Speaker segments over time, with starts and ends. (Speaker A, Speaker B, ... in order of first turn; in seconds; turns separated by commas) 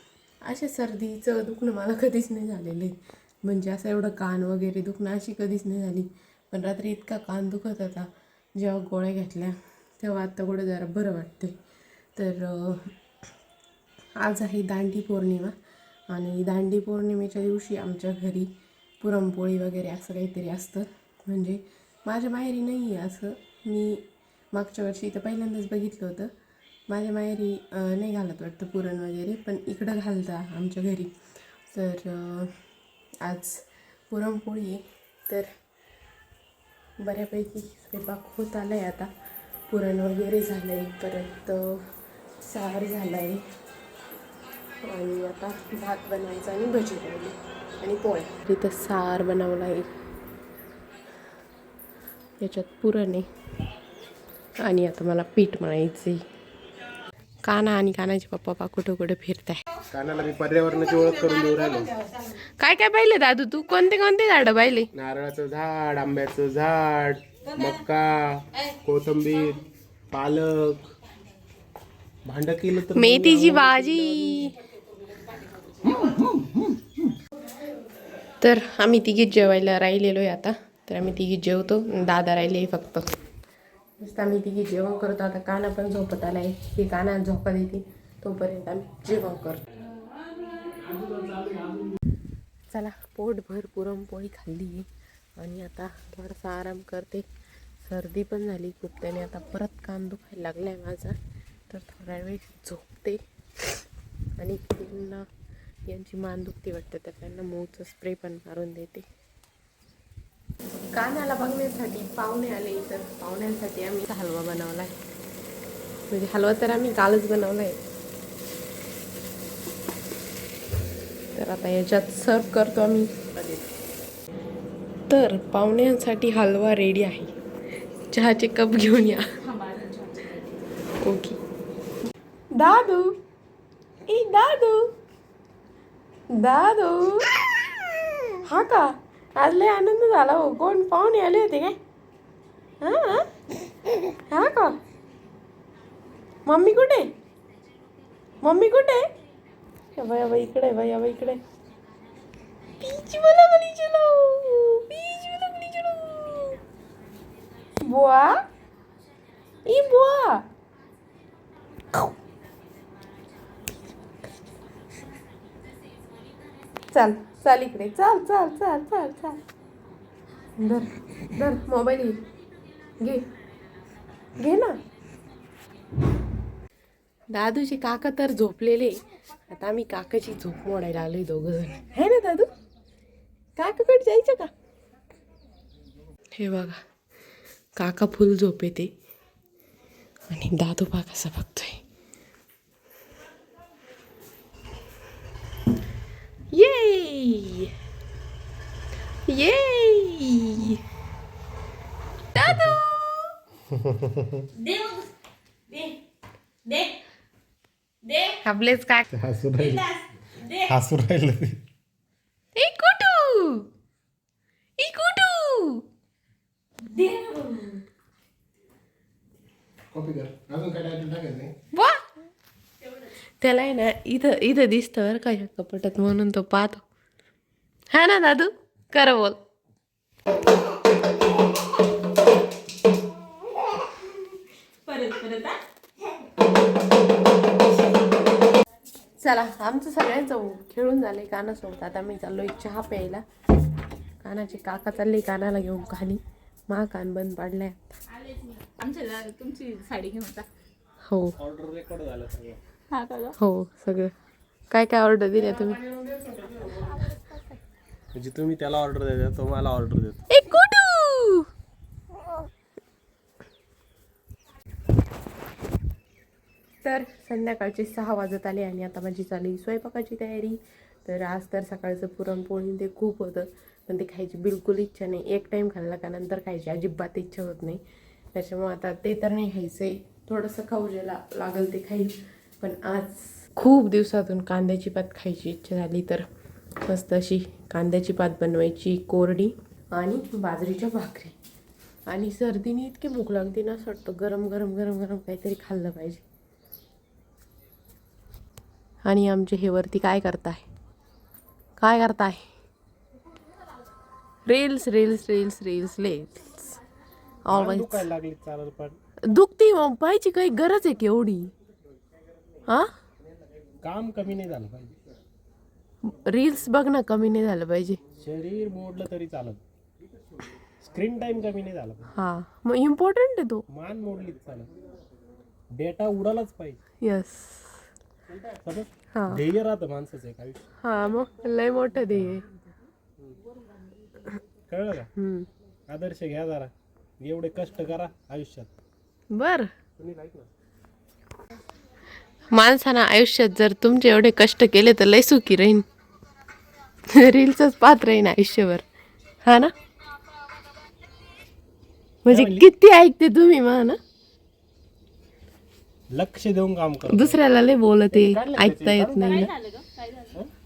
Speaker A: 0.4-11.6, Speaker A: 12.1-12.9, Speaker A: 14.2-15.5, Speaker A: 16.1-26.3, Speaker A: 26.9-31.1, Speaker A: 31.7-32.5, Speaker A: 33.2-35.5, Speaker A: 37.0-39.1, Speaker A: 39.7-41.9, Speaker A: 42.4-43.4, Speaker A: 44.8-49.9, Speaker A: 52.4-53.3, Speaker A: 54.6-56.2, Speaker A: 57.4-59.6, Speaker B: 59.9-62.1, Speaker A: 62.6-64.9, Speaker B: 64.9-70.9, Speaker B: 72.2-74.3, Speaker A: 72.9-74.6, Speaker A: 78.4-83.1, Speaker A: 84.0-89.6, Speaker B: 90.8-91.9, Speaker A: 92.7-97.3, Speaker A: 97.8-101.2, Speaker A: 101.7-103.2, Speaker A: 104.4-105.3, Speaker A: 105.9-109.1, Speaker A: 110.9-114.9, Speaker A: 116.1-117.8, Speaker A: 121.3-123.6, Speaker A: 125.1-127.3, Speaker A: 128.1-129.3, Speaker C: 129.4-130.6, Speaker A: 131.0-131.4, Speaker A: 132.5-133.1, Speaker A: 134.1-134.8, Speaker A: 136.3-137.3, Speaker A: 138.4-141.8, Speaker A: 142.8-143.3, Speaker A: 144.3-144.8, Speaker A: 146.5-147.1, Speaker A: 148.4-149.1, Speaker A: 149.9-151.4, Speaker A: 152.8-156.6, Speaker A: 157.8-158.4, Speaker A: 159.7-160.4, Speaker A: 166.9-169.4, Speaker A: 170.6-172.2, Speaker A: 173.0-173.3, Speaker A: 174.4-174.8, Speaker A: 177.3-182.5, Speaker A: 183.6-184.5, Speaker A: 186.4-186.8, Speaker A: 187.8-188.9, Speaker A: 190.3-191.8, Speaker A: 196.5-197.7, Speaker A: 199.3-200.8, Speaker A: 202.3-203.3, Speaker C: 204.5-205.1, Speaker C: 205.7-206.0, Speaker C: 206.7-206.9, Speaker C: 208.0-208.4, Speaker A: 208.4-209.1, Speaker B: 209.1-209.9, Speaker C: 209.6-210.7, Speaker B: 210.6-211.6, Speaker A: 212.6-213.7, Speaker A: 214.8-215.8, Speaker C: 216.9-217.8, Speaker B: 219.9-221.5, Speaker A: 221.7-222.0, Speaker A: 223.4-226.8, Speaker A: 227.9-229.4, Speaker C: 234.8-235.6, Speaker A: 239.2-243.2, Speaker A: 244.2-248.0, Speaker C: 248.5-250.5, Speaker A: 251.1-251.3, Speaker B: 251.4-252.6, Speaker C: 252.9-253.3, Speaker A: 253.4-254.1, Speaker A: 254.7-255.8, Speaker B: 255.5-257.1, Speaker B: 258.1-260.2, Speaker A: 260.3-261.5, Speaker A: 266.8-277.8, Speaker A: 278.3-286.3, Speaker A: 286.8-291.4, Speaker A: 292.1-296.2, Speaker A: 299.0-300.6, Speaker A: 301.8-302.5, Speaker A: 304.5-306.8, Speaker A: 307.4-308.1, Speaker B: 307.5-309.0, Speaker A: 309.2-311.5, Speaker B: 313.8-314.9, Speaker A: 316.0-318.0, Speaker B: 318.2-319.6, Speaker B: 320.8-322.1, Speaker A: 322.1-323.6, Speaker B: 323.7-324.7, Speaker B: 325.7-326.8, Speaker A: 327.0-327.8, Speaker B: 328.6-330.7, Speaker A: 329.1-329.4, Speaker A: 330.8-332.5, Speaker B: 334.7-335.1, Speaker A: 335.1-335.5, Speaker B: 335.9-338.7, Speaker A: 339.3-339.7, Speaker B: 340.0-340.5, Speaker A: 342.5-345.8, Speaker A: 347.1-348.8, Speaker A: 349.4-349.7, Speaker A: 352.2-354.0, Speaker B: 352.3-352.6, Speaker B: 356.1-357.4, Speaker A: 357.1-359.5, Speaker B: 358.1-359.5, Speaker C: 359.2-360.3